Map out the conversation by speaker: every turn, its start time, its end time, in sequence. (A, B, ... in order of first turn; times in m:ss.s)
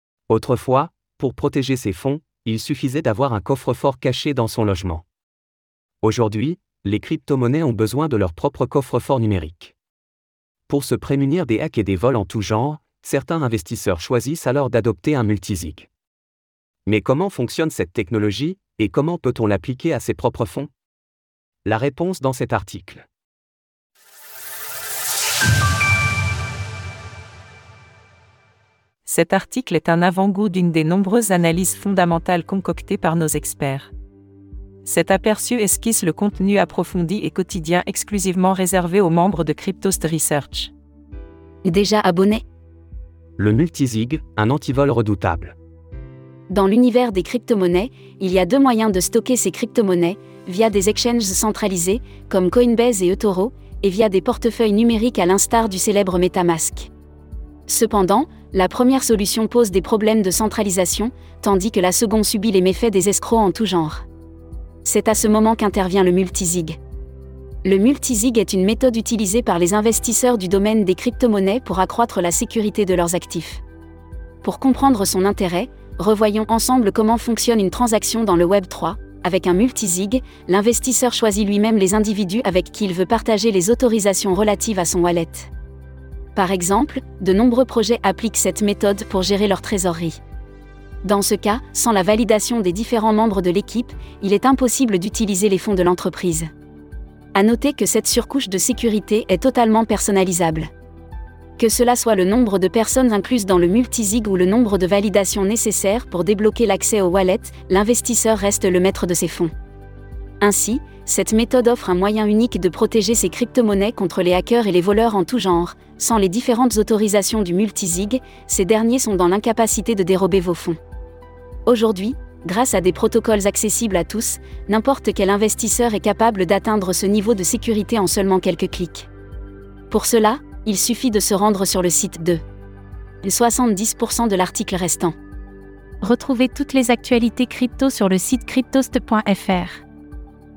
0:00.3-0:05.0 A
0:06.0-0:09.7 A
0:10.7-0:15.9 A
0:16.9-0:20.7 A
0:21.6-0:23.1 A
0:29.1-0:33.9 B
0:34.8-0:40.7 B
0:41.6-0:42.4 C
0:43.4-0:45.6 A
0:46.5-0:56.9 C
0:57.7-1:04.0 C
1:04.8-1:06.8 C
1:07.6-1:13.6 C
1:14.4-1:25.5 C
1:26.4-1:30.2 C
1:31.0-1:36.5 C
1:37.4-1:40.7 C
1:41.6-1:49.5 C
1:50.4-2:00.8 C
2:01.7-2:09.1 C
2:09.9-2:12.4 C
2:13.2-2:15.2 C
2:16.0-2:19.8 D